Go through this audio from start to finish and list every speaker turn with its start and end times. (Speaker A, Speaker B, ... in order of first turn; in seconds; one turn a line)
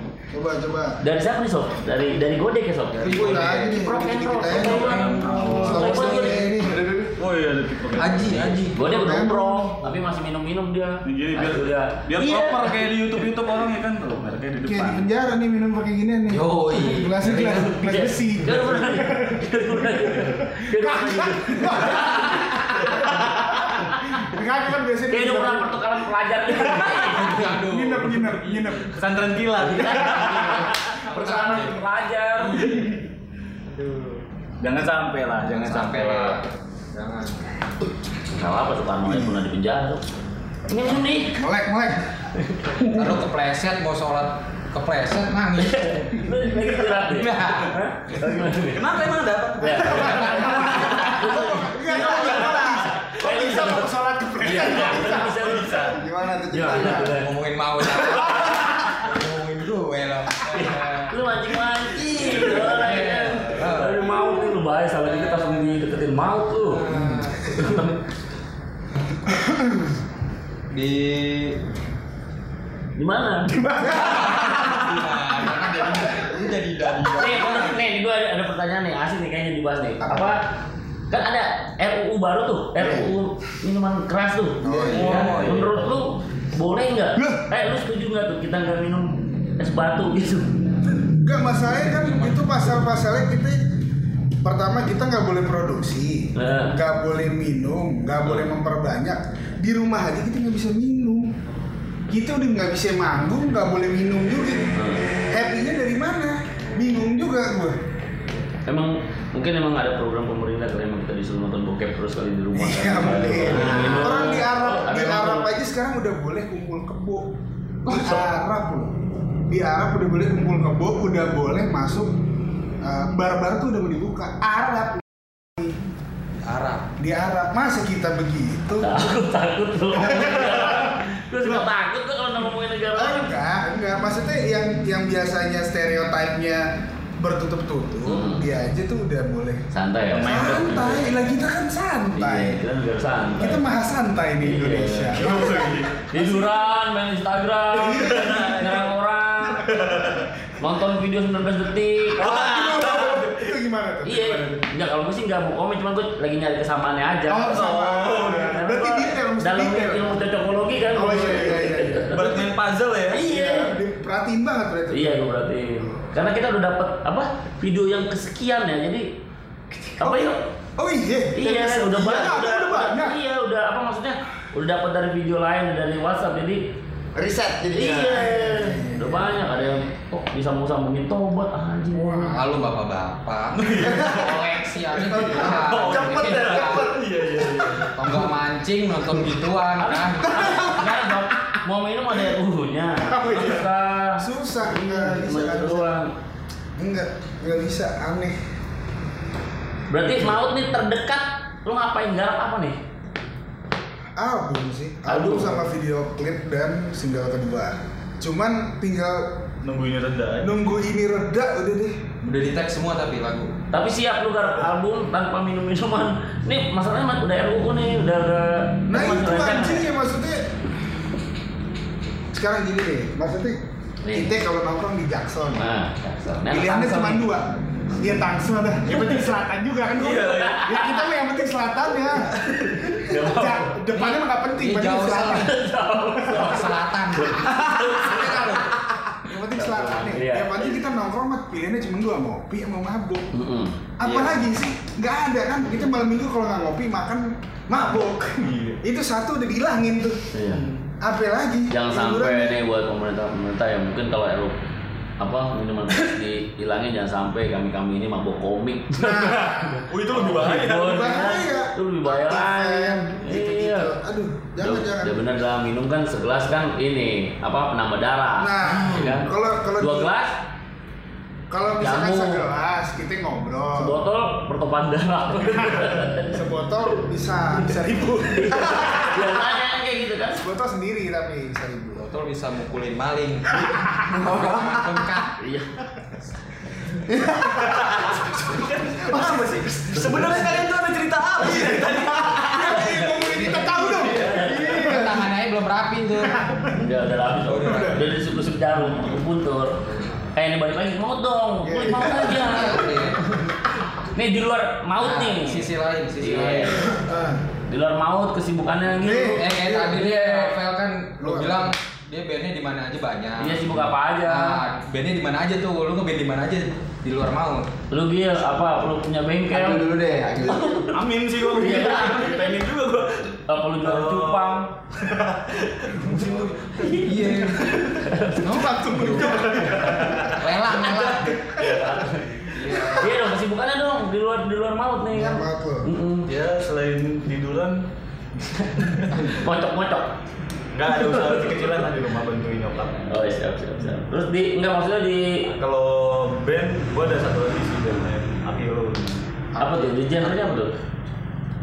Speaker A: 0.3-1.0
Speaker B: 1.0-6.5
Speaker C: 2.9-6.5
Speaker A: 3.0-6.8
Speaker D: 5.2-5.8
Speaker E: 6.6-7.1
Speaker D: 7.2-8.6
Speaker C: 8.0-8.8
Speaker B: 8.7-12.9
Speaker A: 8.8-9.8
Speaker D: 11.1-15.1
Speaker A: 14.6-22.6
Speaker C: 16.3-17.7
Speaker B: 17.3-22.3
Speaker A: 23.2-25.9
Speaker B: 23.6-24.2
Speaker B: 25.1-27.4
Speaker C: 26.7-28.9
Speaker A: 27.4-28.9
Speaker D: 28.9-30.7
Speaker B: 29.6-32.7
Speaker C: 30.1-33.0
Speaker C: 33.7-34.2
Speaker D: 34.6-36.4
Speaker C: 35.4-37.4
Speaker B: 38.3-40.0
Speaker B: 40.7-41.4
Speaker A: 41.3-42.1
Speaker B: 42.4-42.9
Speaker C: 42.9-46.3
Speaker B: 45.6-48.9
Speaker C: 46.9-47.8
Speaker D: 48.6-50.8
Speaker B: 49.6-57.3
Speaker C: 49.8-51.1
Speaker A: 50.7-55.9
Speaker E: 55.8-57.2
Speaker C: 56.9-61.2
Speaker B: 60.5-66.9
Speaker C: 62.0-64.3
Speaker C: 65.0-65.8
Speaker C: 66.6-67.9
Speaker A: 66.9-67.3
Speaker B: 67.5-68.0
Speaker A: 69.5-69.8
Speaker C: 70.7-71.6
Speaker B: 73.0-73.9
Speaker A: 73.6-74.6
Speaker C: 73.8-77.8
Speaker B: 77.2-80.4
Speaker A: 80.0-80.3
Speaker B: 81.1-90.5
Speaker A: 82.8-83.1
Speaker C: 84.6-85.7
Speaker A: 84.6-85.4
Speaker D: 85.0-85.7
Speaker A: 91.1-93.6
Speaker C: 91.9-92.4
Speaker A: 94.4-101.3
Speaker B: 96.4-96.8
Speaker A: 102.1-104.8
Speaker B: 104.8-105.1
Speaker A: 105.3-107.8
Speaker B: 108.7-115.5
Speaker A: 112.5-117.3
Speaker B: 117.9-118.3
Speaker A: 117.9-119.0
Speaker A: 119.5-122.2
Speaker A: 122.8-125.8
Speaker C: 126.4-126.9
Speaker A: 127.0-129.2
Speaker B: 128.8-133.3
Speaker A: 129.9-131.0
Speaker A: 132.9-139.7
Speaker B: 138.1-138.5
Speaker B: 139.7-141.1
Speaker D: 140.1-141.0
Speaker A: 140.2-142.6
Speaker B: 142.2-143.6
Speaker A: 143.4-146.5
Speaker B: 144.4-145.4
Speaker D: 145.1-146.1
Speaker B: 146.1-150.0
Speaker A: 147.8-148.5
Speaker D: 147.9-148.9
Speaker D: 149.6-150.3
Speaker B: 150.6-152.4
Speaker D: 152.2-153.5
Speaker A: 152.2-154.7
Speaker B: 154.1-162.4
Speaker A: 157.3-160.3
Speaker D: 157.4-158.6
Speaker A: 160.9-162.5
Speaker D: 162.1-163.3
Speaker A: 163.1-165.3
Speaker B: 163.1-163.8
Speaker B: 164.9-169.1
Speaker B: 170.0-170.5
Speaker A: 170.0-173.2
Speaker B: 171.3-176.6
Speaker E: 177.2-178.8
Speaker B: 177.7-182.4
Speaker A: 178.3-179.4
Speaker C: 182.0-186.9
Speaker A: 182.0-182.4
Speaker D: 183.5-184.4
Speaker E: 184.0-184.2
Speaker E: 185.1-187.7
Speaker D: 185.1-188.0
Speaker C: 187.9-190.7
Speaker B: 189.8-196.1
Speaker A: 193.0-195.9
Speaker A: 196.8-198.4
Speaker B: 199.9-202.8
Speaker A: 204.2-209.4
Speaker B: 205.1-205.7
Speaker D: 209.6-210.5
Speaker A: 210.4-212.1
Speaker C: 212.2-213.5
Speaker B: 213.7-219.9
Speaker A: 218.9-220.5
Speaker A: 222.3-223.6
Speaker B: 224.0-224.4
Speaker A: 224.1-225.7
Speaker B: 225.6-227.3
Speaker A: 226.5-232.4
Speaker D: 229.9-230.9
Speaker B: 230.4-231.0
Speaker B: 232.7-234.1
Speaker A: 232.9-235.6
Speaker C: 234.6-235.6
Speaker B: 235.3-238.6
Speaker C: 236.2-238.8
Speaker A: 239.2-243.3
Speaker B: 239.5-240.7
Speaker B: 243.3-243.8
Speaker A: 244.0-250.3
Speaker C: 244.0-244.4
Speaker D: 247.8-248.8
Speaker B: 250.3-250.6
Speaker D: 250.4-250.8
Speaker A: 251.0-252.6
Speaker B: 251.7-254.6
Speaker B: 255.2-263.9
Speaker A: 259.0-259.8
Speaker D: 259.1-261.2
Speaker A: 260.7-265.2
Speaker B: 264.6-270.4
Speaker A: 268.4-270.1
Speaker C: 268.8-269.1
Speaker A: 271.5-274.0
Speaker B: 271.8-272.5
Speaker B: 273.8-276.4
Speaker A: 276.2-279.4
Speaker B: 278.3-280.4
Speaker A: 280.3-282.0
Speaker C: 282.0-285.4
Speaker E: 284.1-285.0
Speaker B: 285.4-285.7
Speaker E: 287.1-288.3
Speaker D: 287.8-288.1
Speaker D: 288.6-293.0
Speaker E: 288.9-290.5
Speaker A: 291.4-295.2
Speaker C: 293.2-296.4
Speaker D: 293.7-294.6
Speaker B: 294.0-294.8
Speaker E: 294.8-295.0
Speaker B: 296.7-299.8
Speaker C: 297.4-298.2
Speaker B: 300.4-303.5
Speaker A: 301.6-302.9
Speaker C: 302.3-303.2
Speaker B: 304.1-306.9
Speaker C: 305.0-306.9
Speaker A: 306.8-307.4
Speaker B: 307.7-309.5
Speaker A: 309.0-310.4
Speaker C: 309.3-317.7
Speaker A: 311.2-311.7
Speaker B: 313.4-314.6
Speaker B: 317.9-322.7
Speaker E: 319.5-320.9
Speaker D: 320.9-327.1
Speaker B: 323.5-324.7
Speaker C: 326.1-327.8
Speaker A: 326.1-326.4
Speaker B: 326.8-328.6
Speaker A: 327.2-327.7
Speaker A: 328.4-330.3
Speaker C: 328.4-329.6
Speaker D: 329.1-332.0
Speaker C: 330.2-331.5
Speaker B: 331.6-336.3
Speaker C: 332.5-333.2
Speaker A: 335.1-335.9
Speaker D: 336.3-337.8
Speaker B: 338.5-340.1
Speaker D: 338.8-339.3
Speaker D: 340.7-343.1
Speaker B: 340.9-341.5
Speaker B: 343.1-345.4
Speaker D: 345.5-349.2
Speaker C: 349.6-350.5
Speaker B: 349.6-350.7